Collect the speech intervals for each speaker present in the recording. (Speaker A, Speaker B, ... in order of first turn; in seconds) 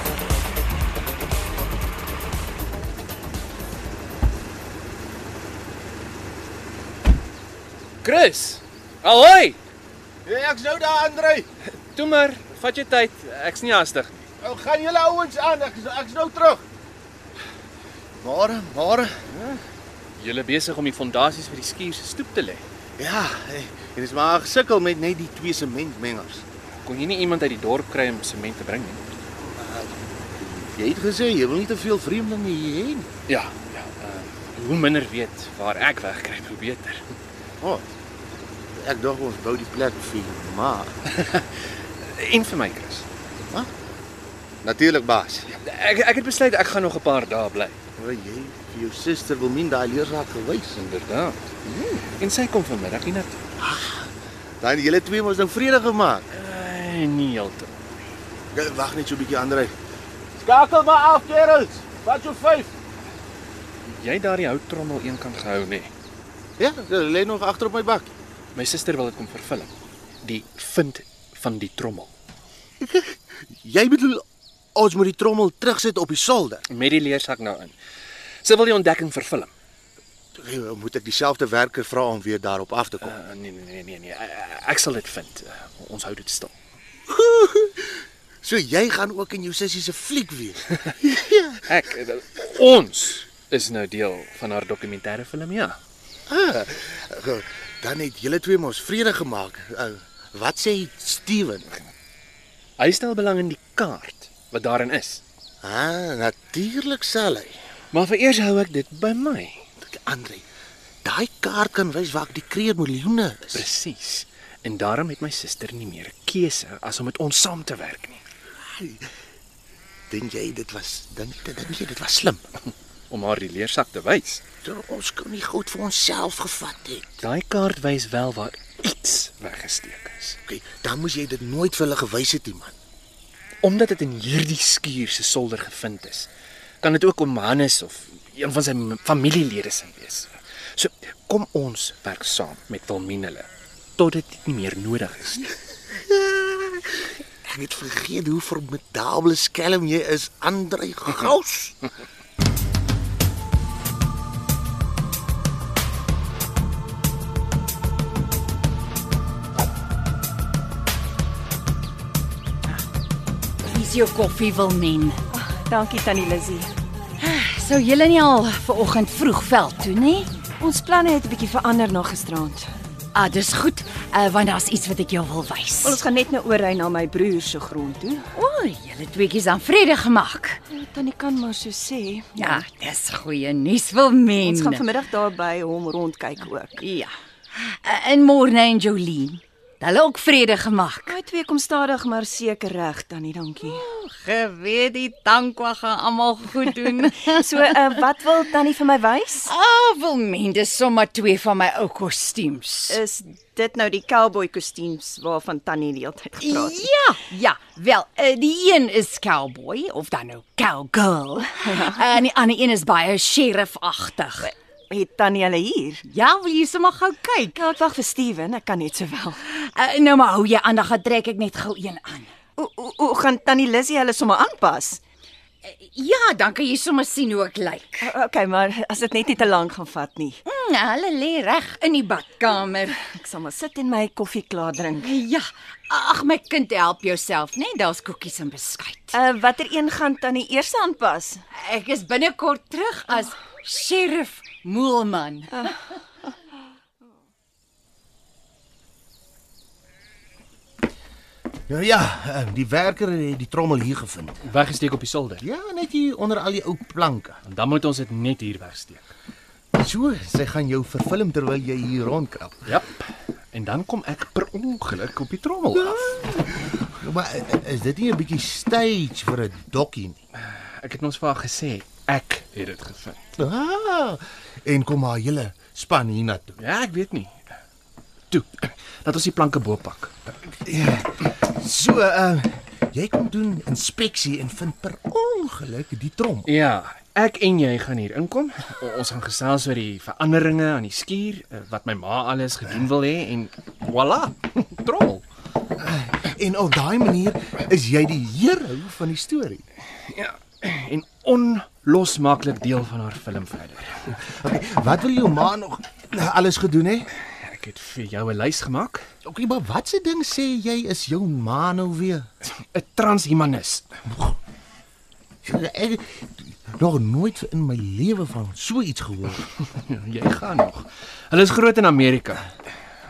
Speaker A: 8.0-9.6, 11.6-14.3, 20.2-22.6, 26.8-29.0, 33.3-37.0, 41.1-43.0, 45.5-47.8, 50.8-53.4, 56.3-57.9, 63.9-65.9, 68.5-69.7, 70.2-72.1, 76.7-77.8, 78.4-79.5, 83.0-86.5, 91.7-95.8, 102.8-105.2, 107.9-109.7, 113.5-118.2, 123.1-124.4, 127.2-130.4, 133.6-136.3, 136.8-145.5, 254.4-255.4, 257.4-259.1, 262.6-266.1, 270.3-273.3, 276.6-277.5, 278.3-280.3, 286.4-295.2, 300.0-304.1, 307.2-309.0, 312.4-313.9, 319.6-322.5
Speaker B: 10.2-11.4, 14.4-16.6, 18.2-19.6, 23.0-26.4, 29.5-33.1, 38.8-40.9, 43.4-43.7, 44.6-45.5, 48.0-50.8, 53.6-54.1, 54.6-56.2, 58.5-59.7, 60.4-62.7, 66.6-68.1, 72.8-74.2, 74.7-76.6, 80.3-83.1, 87.1-91.6, 96.3-101.8, 105.6-107.5, 109.8-110.4, 111.0-113.7, 118.6-119.0, 120.1-122.5, 124.6-127.2, 130.4-132.7, 145.9-151.8, 251.7-254.4, 255.4-257.4, 259.7-262.6, 265.8-270.2, 273.4-276.6, 280.6-286.5, 295.8-299.6, 304.2-307.1, 309.2-312.2, 314.1-314.4, 315.4-319.4
Speaker C: 163.7-165.2, 167.2-170.3, 173.1-176.0, 178.3-180.6, 182.4-184.8, 186.8-191.2, 193.6-197.8, 199.4-203.0, 206.4-214.5, 216.1-217.6, 219.5-222.3, 225.6-228.1, 230.4-233.0, 235.0-239.2, 241.6-245.8
Speaker D: 165.3-166.7, 170.6-172.7, 175.8-178.3, 180.7-182.6, 184.4-186.8, 191.1-193.8, 197.2-199.5, 202.9-206.8, 214.9-216.0, 217.5-219.4, 222.6-225.0, 228.0-230.4, 233.0-235.1, 239.1-241.4